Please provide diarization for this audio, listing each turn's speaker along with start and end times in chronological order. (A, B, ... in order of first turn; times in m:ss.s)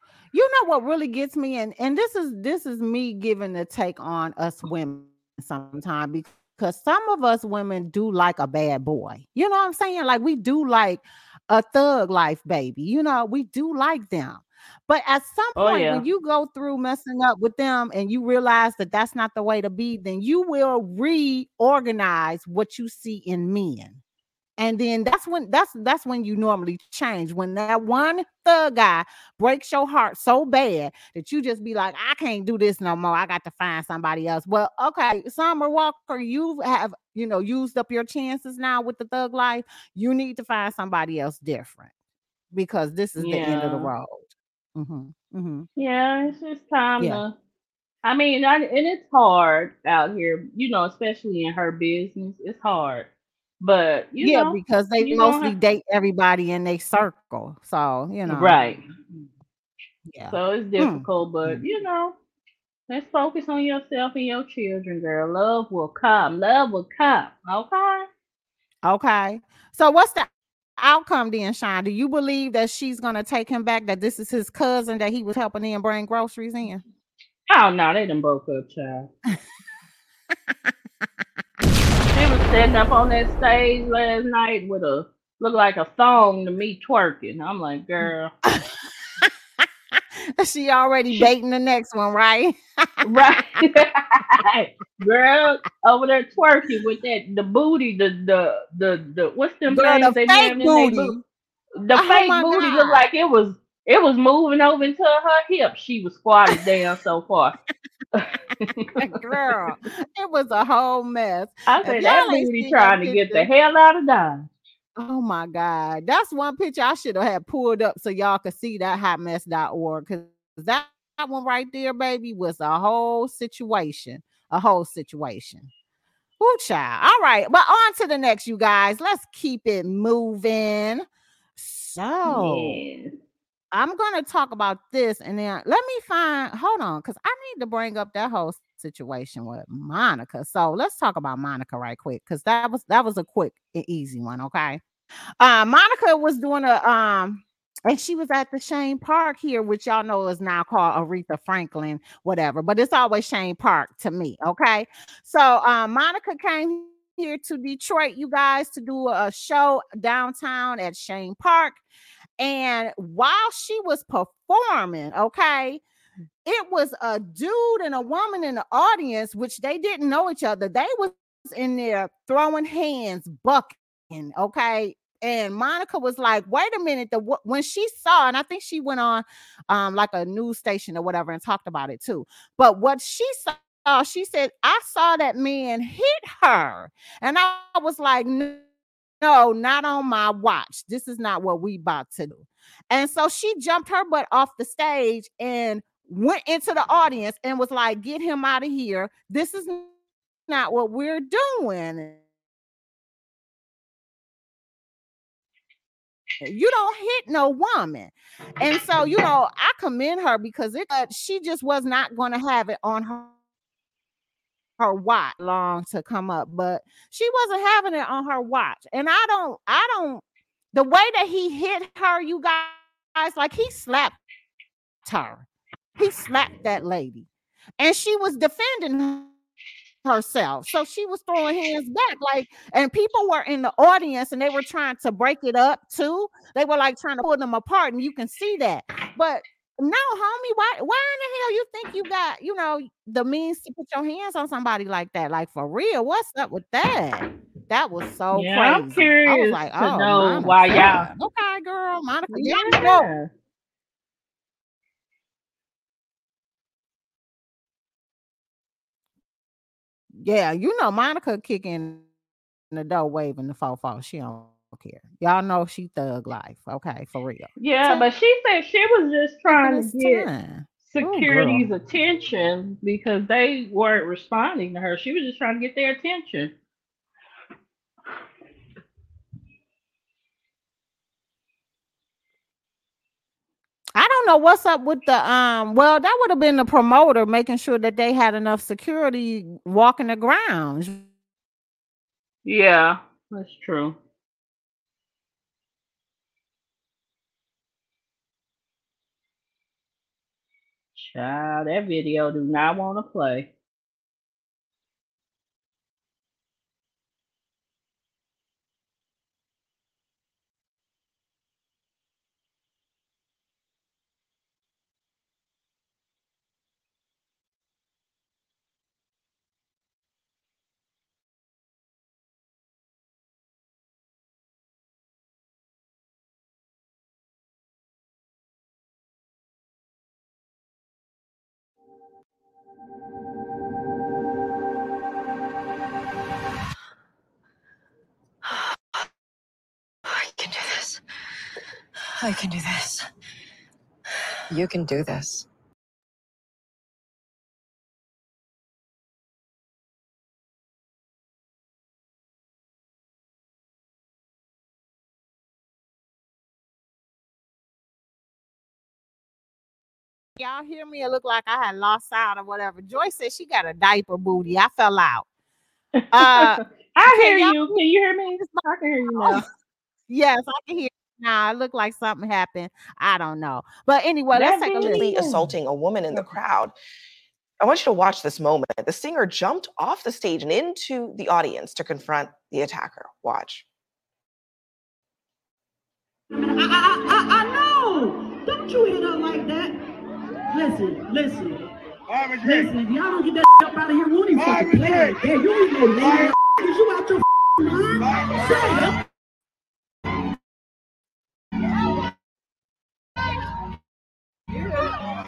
0:00.3-0:24.0 A
0:15.6-0:16.0 B
0:24.6-0:41.9 A
0:42.5-0:45.7 A
0:43.2-0:43.9 B
0:45.8-0:47.3 B
0:48.0-0:53.1 B
0:53.6-0:55.5 B
0:54.2-0:58.6 A
0:58.3-0:58.8 B
1:00.1-1:01.6 A
1:00.3-1:02.2 B
1:02.9-1:08.1 B
1:08.8-1:16.8 A
1:17.5-1:19.1 B
1:22.1-1:28.3 B
1:28.4-1:29.3 A
1:30.4-1:32.8 A
1:33.0-1:41.2 B
1:39.7-1:41.2 A
1:41.8-1:47.6 B
1:41.9-1:43.0 A
1:48.1-1:49.2 B
1:49.0-1:53.5 A
1:51.7-1:54.5 B
1:55.0-2:05.7 A
2:06.4-2:12.8 A
2:12.2-2:13.1 B
2:13.7-2:24.8 A
2:25.4-2:41.8 A
2:42.4-2:45.8 A
2:46.4-3:08.6 A
3:09.2-3:19.9 A
3:20.5-3:22.2 A
3:26.4-3:33.3 A
3:34.8-3:44.2 A
3:45.0-3:45.4 A
3:46.0-3:47.3 A
3:47.8-3:49.3 A
3:50.0-4:13.1 A
4:08.3-4:11.1 B
4:12.3-4:13.3 B
4:20.1-4:22.0 A
4:22.7-4:28.1 A
4:27.6-4:30.3 B
4:29.5-4:31.7 A
4:30.8-4:36.5 B
4:43.9-4:51.0 A
4:52.4-4:54.0 B
5:00.9-5:03.5 B
5:40.4-5:41.0 C
5:42.2-5:43.0 C
5:44.5-5:45.4 C
6:00.4-6:05.2 A
6:06.0-6:09.4 B
6:06.1-6:07.8 A
6:09.1-6:09.4 A
6:10.1-6:15.3 A
6:14.3-6:15.4 B
6:14.8-6:16.7 D
6:17.6-6:23.6 D
6:26.4-6:29.8 E
6:30.5-6:31.6 E
6:32.3-6:38.9 E